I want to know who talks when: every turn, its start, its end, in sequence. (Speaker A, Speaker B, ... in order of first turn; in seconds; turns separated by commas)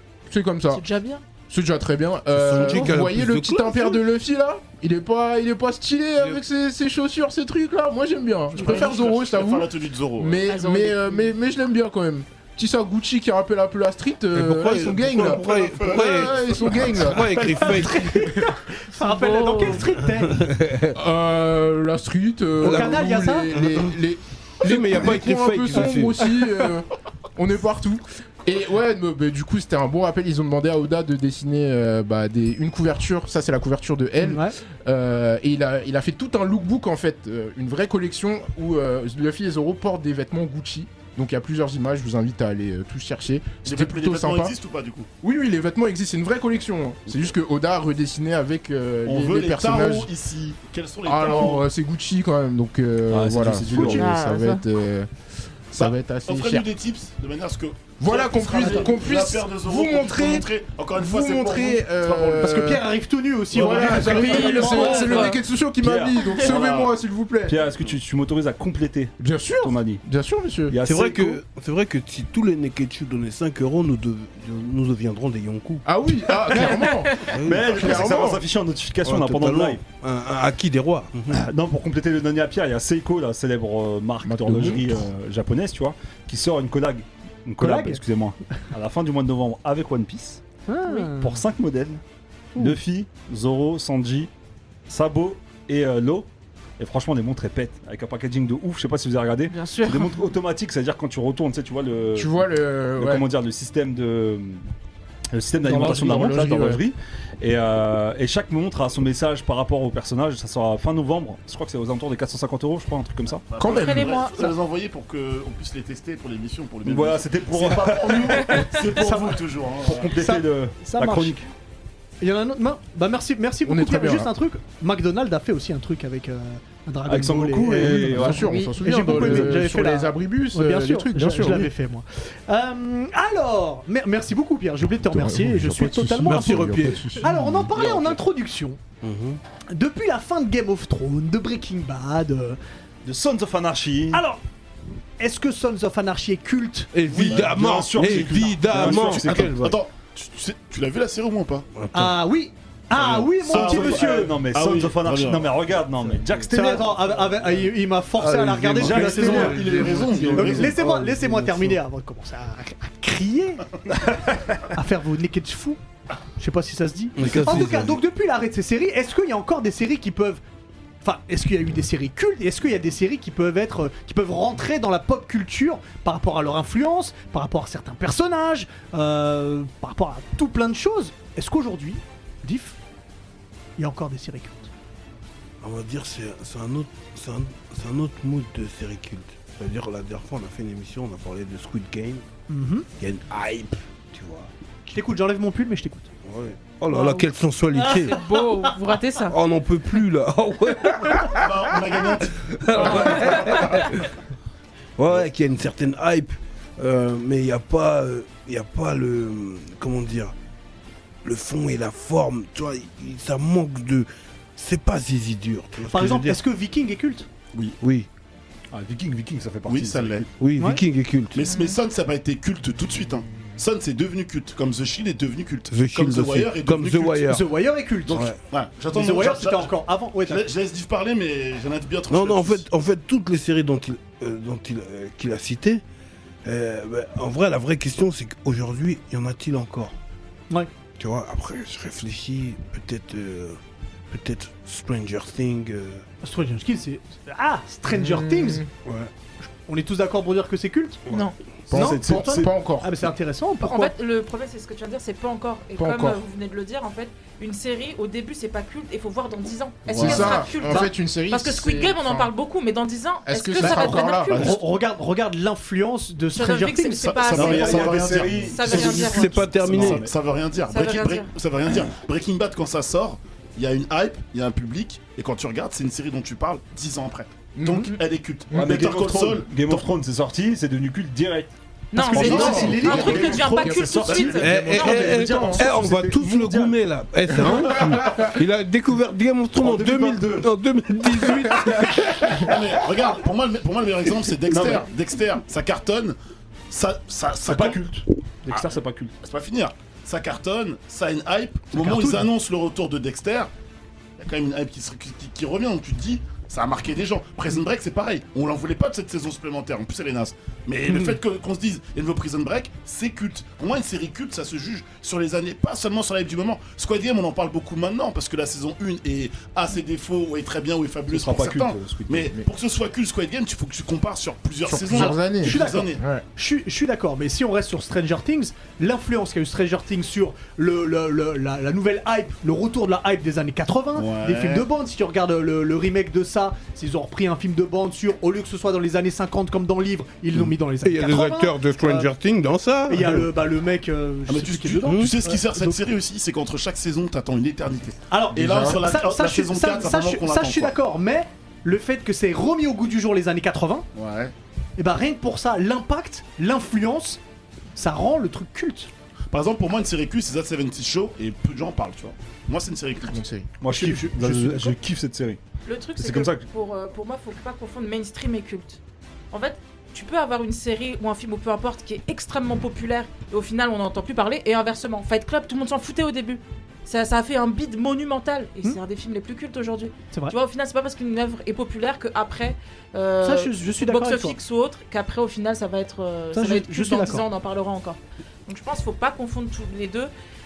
Speaker A: 0.3-0.8, Speaker B: 0.7-1.2, Speaker A: 1.5-18.6, Speaker C: 2.3-4.0, Speaker D: 8.5-10.5, Speaker B: 10.4-11.3, Speaker C: 14.3-18.4, Speaker D: 15.1-17.2, Speaker E: 17.5-20.4, Speaker B: 19.0-19.8, Speaker C: 20.2-20.9, Speaker A: 20.9-44.5, Speaker E: 22.6-23.5, Speaker C: 22.6-23.9, Speaker C: 24.6-26.5, Speaker E: 34.2-34.5, Speaker D: 43.6-45.1, Speaker A: 45.2-50.1, Speaker D: 49.0-51.6, Speaker A: 51.0-55.1, Speaker F: 53.1-54.2, Speaker B: 53.8-54.6, Speaker A: 55.7-56.6, Speaker D: 55.8-62.6, Speaker A: 58.0-62.9, Speaker E: 62.4-65.4, Speaker A: 63.5-67.6, Speaker D: 63.6-64.9, Speaker B: 64.0-65.4, Speaker F: 65.8-66.5, Speaker D: 66.4-67.0, Speaker F: 67.5-70.0, Speaker A: 69.2-70.8, Speaker F: 70.7-71.4, Speaker C: 70.8-76.5, Speaker A: 75.8-78.4, Speaker B: 76.6-77.2, Speaker C: 77.2-78.2, Speaker F: 77.4-79.8, Speaker C: 79.0-81.5, Speaker F: 81.3-90.4, Speaker A: 84.2-85.0, Speaker E: 87.6-88.0, Speaker E: 90.7-91.4, Speaker F: 91.1-92.0, Speaker F: 92.6-94.3, Speaker F: 94.9-102.4, Speaker B: 99.5-100.2, Speaker A: 102.2-103.2, Speaker F: 102.9-104.6, Speaker F: 105.3-113.5, Speaker A: 105.6-106.8, Speaker D: 113.5-120.1, Speaker A: 113.6-114.5, Speaker B: 113.7-114.5, Speaker F: 116.8-118.8, Speaker E: 118.9-119.4, Speaker F: 119.8-121.5, Speaker E: 120.1-121.4, Speaker E: 122.2-138.8, Speaker A: 123.6-124.3, Speaker F: 127.1-128.5, Speaker A: 127.8-131.7, Speaker B: 128.4-128.8, Speaker C: 129.1-129.4, Speaker A: 135.1-137.7, Speaker C: 136.2-137.2, Speaker F: 137.7-138.2, Speaker C: 139.0-139.4, Speaker E: 139.7-142.6, Speaker F: 143.0-144.2, Speaker E: 144.1-144.4, Speaker E: 145.2-146.9, Speaker C: 146.9-149.8, Speaker F: 147.1-149.7, Speaker D: 147.2-151.7, Speaker C: 151.8-152.2, Speaker E: 151.9-154.3, Speaker F: 152.9-157.3, Speaker D: 153.4-155.6, Speaker E: 156.5-163.7, Speaker C: 158.2-161.8, Speaker F: 158.8-159.8, Speaker D: 158.9-160.8, Speaker F: 164.1-164.3, Speaker E: 164.6-165.8, Speaker E: 166.4-170.4, Speaker C: 167.2-168.0, Speaker E: 171.0-182.8, Speaker E: 183.8-184.7, Speaker C: 185.6-192.2, Speaker E: 192.5-192.9, Speaker C: 193.0-194.5, Speaker E: 194.9-196.1, Speaker C: 196.2-198.3, Speaker B: 196.9-197.2, Speaker E: 197.8-198.4, Speaker B: 197.9-199.4, Speaker C: 199.3-204.1, Speaker D: 201.3-203.8, Speaker C: 205.0-210.3, Speaker C: 211.2-216.4, Speaker E: 215.9-217.3, Speaker C: 217.8-218.1, Speaker F: 218.7-220.2, Speaker D: 219.7-220.3, Speaker C: 220.4-221.4, Speaker E: 220.6-220.8, Speaker D: 221.3-227.3, Speaker B: 221.4-221.8, Speaker C: 225.7-227.4, Speaker E: 227.3-228.3, Speaker D: 228.1-232.6, Speaker C: 228.1-228.4, Speaker E: 228.9-230.5, Speaker C: 232.1-235.8, Speaker C: 236.4-239.9, Speaker C: 241.0-243.6, Speaker C: 244.1-246.1, Speaker E: 246.2-248.6, Speaker A: 247.9-248.7, Speaker C: 248.8-249.1, Speaker E: 249.4-251.0, Speaker A: 251.7-252.9, Speaker F: 251.7-252.5, Speaker E: 251.7-253.9, Speaker B: 253.6-264.5, Speaker A: 255.8-256.2, Speaker D: 259.9-260.4, Speaker A: 259.9-262.3, Speaker A: 263.3-264.5, Speaker E: 263.6-268.2, Speaker D: 264.3-264.6, Speaker B: 266.3-269.4, Speaker D: 267.1-279.9, Speaker F: 267.3-270.1, Speaker C: 268.7-270.1, Speaker B: 270.7-271.3, Speaker A: 277.6-277.9, Speaker A: 278.5-278.9, Speaker F: 278.5-286.8, Speaker B: 281.9-285.2, Speaker E: 282.0-283.4, Speaker D: 282.1-284.5, Speaker A: 282.1-285.8, Speaker C: 284.4-292.6, Speaker A: 287.4-288.4, Speaker F: 289.6-290.5, Speaker A: 291.4-292.5, Speaker D: 292.2-296.2, Speaker F: 294.4-294.9, Speaker D: 296.7-297.8, Speaker F: 297.4-299.1, Speaker D: 298.5-303.5, Speaker E: 301.7-302.3, Speaker D: 304.2-326.0, Speaker F: 321.1-322.4, Speaker A: 324.7-326.2, Speaker E: 324.9-342.1, Speaker D: 333.9-334.7, Speaker C: 340.3-343.3, Speaker E: 342.9-345.8, Speaker D: 344.3-350.7, Speaker C: 344.8-345.2, Speaker E: 348.1-353.9, Speaker A: 348.4-348.8, Speaker D: 353.9-354.3, Speaker E: 354.8-357.2, Speaker E: 357.8-358.9, Speaker D: 359.3-363.2, Speaker A: 363.1-363.5, Speaker F: 363.6-365.4, Speaker E: 363.7-364.7, Speaker B: 365.7-368.8, Speaker F: 366.0-366.4, Speaker B: 369.3-390.1, Speaker E: 383.2-384.4, Speaker E: 386.3-387.3